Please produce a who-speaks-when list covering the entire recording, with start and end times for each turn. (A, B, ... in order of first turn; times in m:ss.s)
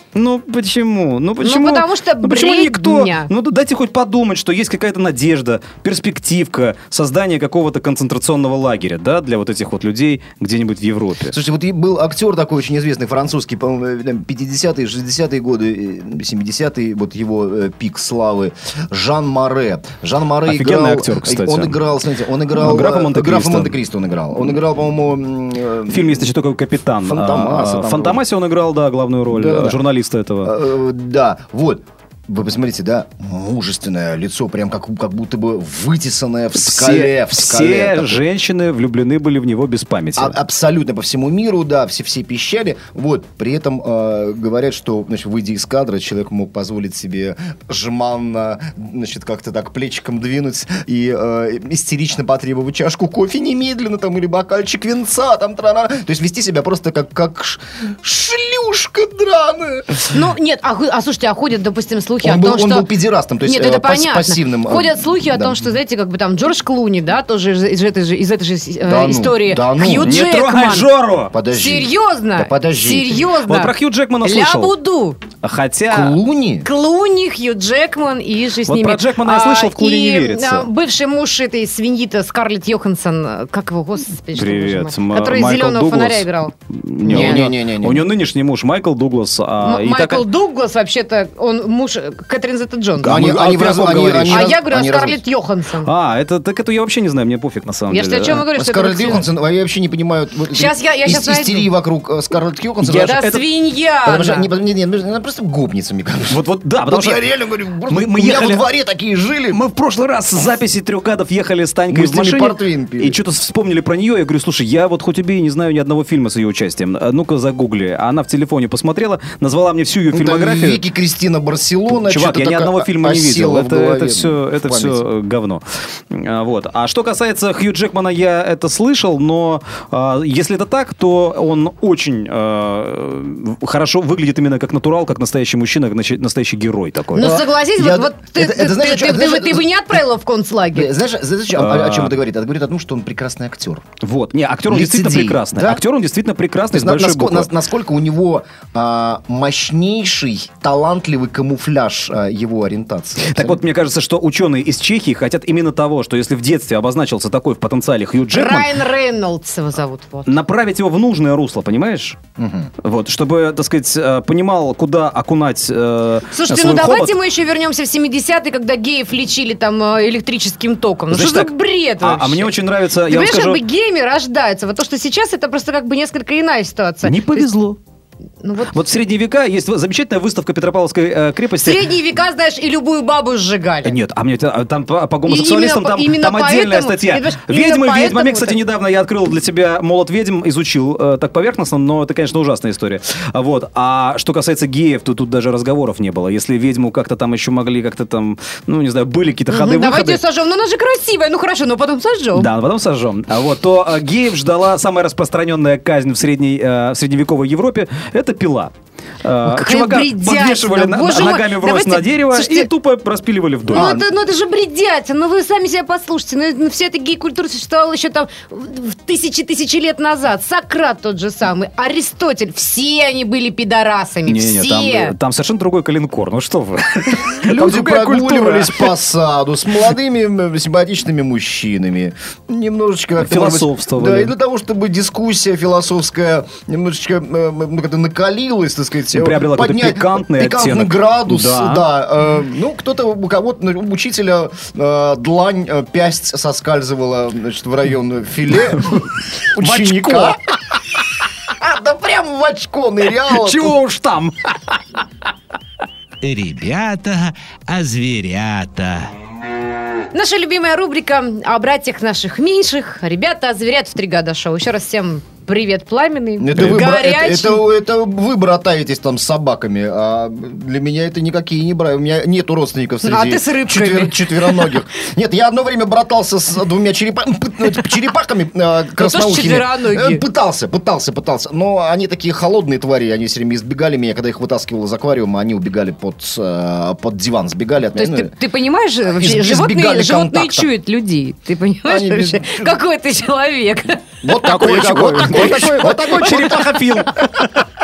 0:00.1-0:11.4 A
0:01.4-0:03.3 B
0:11.3-0:26.3 C
0:20.5-0:21.8 A
0:22.5-0:23.7 A
0:25.9-0:30.5 A
0:27.0-0:28.2 C
0:29.3-0:29.8 C
0:30.4-0:38.2 C
0:36.6-0:40.3 A
0:40.2-1:00.2 C
1:00.1-1:02.9 B
1:02.2-1:05.6 C
1:03.4-1:10.9 B
1:08.8-1:10.1 C
1:09.8-1:11.4 A
1:11.3-1:13.3 C
1:11.5-1:15.2 B
1:13.4-1:14.7 A
1:15.4-1:16.2 A
1:15.9-1:16.7 C
1:16.6-1:26.5 B
1:18.6-1:20.7 A
1:24.3-1:30.2 A
1:27.0-1:28.0 C
1:27.0-1:27.5 B
1:29.6-1:33.2 B
1:33.0-1:34.4 A
1:33.0-1:35.2 C
1:34.3-1:35.9 B
1:35.8-1:38.4 A
1:37.9-1:39.2 B
1:38.5-1:43.2 C
1:40.5-1:41.7 B
1:42.9-1:43.4 A
1:42.9-1:44.5 B
1:44.0-1:49.6 C
1:46.3-1:47.2 A
1:47.9-1:48.6 A
1:49.5-2:00.8 A
1:51.9-1:53.2 C
2:00.1-2:05.0 C
2:01.9-2:17.3 A
2:17.1-2:20.9 B
2:17.2-2:19.6 C
2:20.7-2:23.8 C
2:21.5-2:22.2 A
2:24.0-2:27.5 A
2:24.7-2:25.8 C
2:26.7-2:33.6 C
2:33.2-2:38.7 A
2:38.3-2:40.3 B
2:40.3-2:42.2 A
2:42.4-2:42.7 C
2:42.8-2:47.2 A
2:46.3-2:57.5 B
2:51.1-2:53.6 A
2:57.0-2:57.8 A
2:58.4-2:58.8 B
2:58.7-3:01.9 A
3:01.6-3:04.0 B
3:03.8-3:20.2 A
3:05.2-3:08.6 B
3:19.5-3:22.5 B
3:22.3-3:28.7 A
3:29.2-3:33.9 A
3:29.4-3:32.7 B
3:33.7-3:45.1 B
3:33.7-3:34.1 C
3:44.2-3:48.9 A
3:47.4-4:10.4 C
3:53.2-3:54.3 A
3:59.1-4:01.8 A
4:08.8-4:10.8 A
4:11.5-4:13.8 C
4:13.1-4:14.8 A
4:16.2-4:19.1 D
4:20.1-4:27.6 B
4:26.4-4:48.3 C
4:26.5-4:26.8 A
4:33.0-4:34.8 B
4:39.0-4:40.2 B
4:47.9-4:54.0 B
4:49.1-4:50.7 C
4:51.8-4:52.8 C
4:54.2-4:56.8 C
4:54.4-4:57.5 A
4:55.2-4:56.7 B